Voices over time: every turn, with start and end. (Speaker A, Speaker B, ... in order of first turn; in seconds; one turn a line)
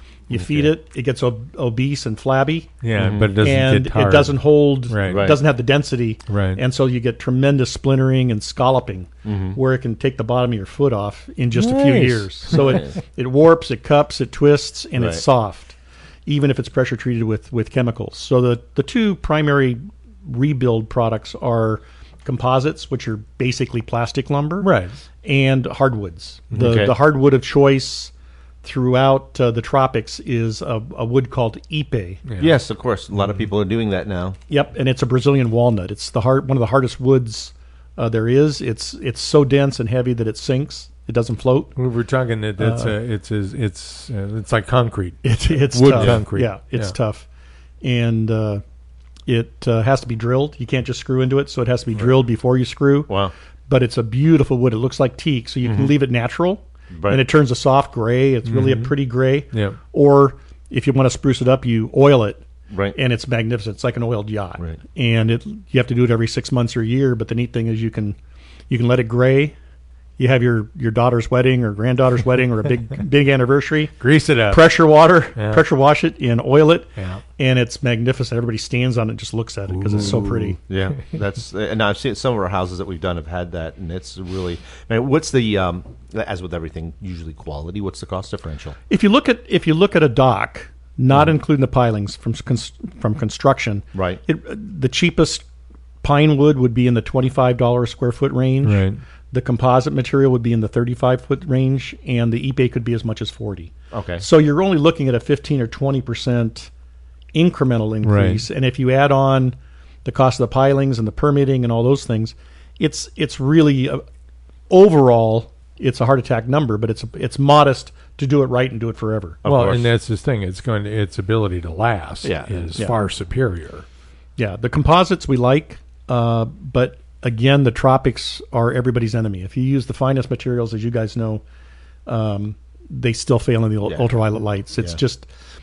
Speaker A: 0.3-2.7
Speaker B: 0.3-0.7
Speaker C: 2.8-5.3
Speaker B: 3.0-3.3
Speaker A: 3.4-24.7
Speaker B: 5.1-5.4
Speaker C: 6.3-6.6
Speaker B: 9.2-9.6
Speaker C: 11.5-12.8
Speaker B: 12.5-12.9
Speaker B: 15.0-15.2
Speaker C: 24.6-25.0
Speaker A: 25.2-28.1
Speaker B: 26.5-26.9
Speaker A: 28.6-32.2
Speaker C: 32.3-32.5
Speaker B: 32.4-34.4
Speaker A: 34.5-41.7
Speaker C: 41.8-46.9
Speaker A: 42.6-42.9
Speaker A: 45.2-47.2
Speaker A: 47.8-48.6
Speaker A: 49.3-53.1
Speaker A: 53.7-68.2
Speaker B: 55.6-55.9
Speaker B: 56.9-57.2
Speaker C: 58.5-58.9
Speaker C: 59.5-59.8
Speaker B: 62.7-63.0
Speaker A: 68.7-69.5
Speaker A: 70.2-74.0
Speaker C: 74.0-74.8
Speaker A: 74.5-80.6
Speaker C: 75.3-75.6
Speaker C: 77.0-77.2
Speaker C: 79.7-80.6
Speaker B: 80.7-88.8
Speaker A: 88.9-95.4
Speaker B: 93.9-94.2
Speaker A: 96.0-106.7
Speaker C: 98.6-99.0
Speaker B: 103.9-104.2
Speaker A: 107.3-114.0
Speaker C: 108.0-108.4
Speaker A: 114.7-119.4
Speaker B: 119.4-119.9
Speaker C: 119.4-123.8
Speaker B: 122.2-122.7
Speaker A: 124.4-131.4
Speaker A: 132.1-135.3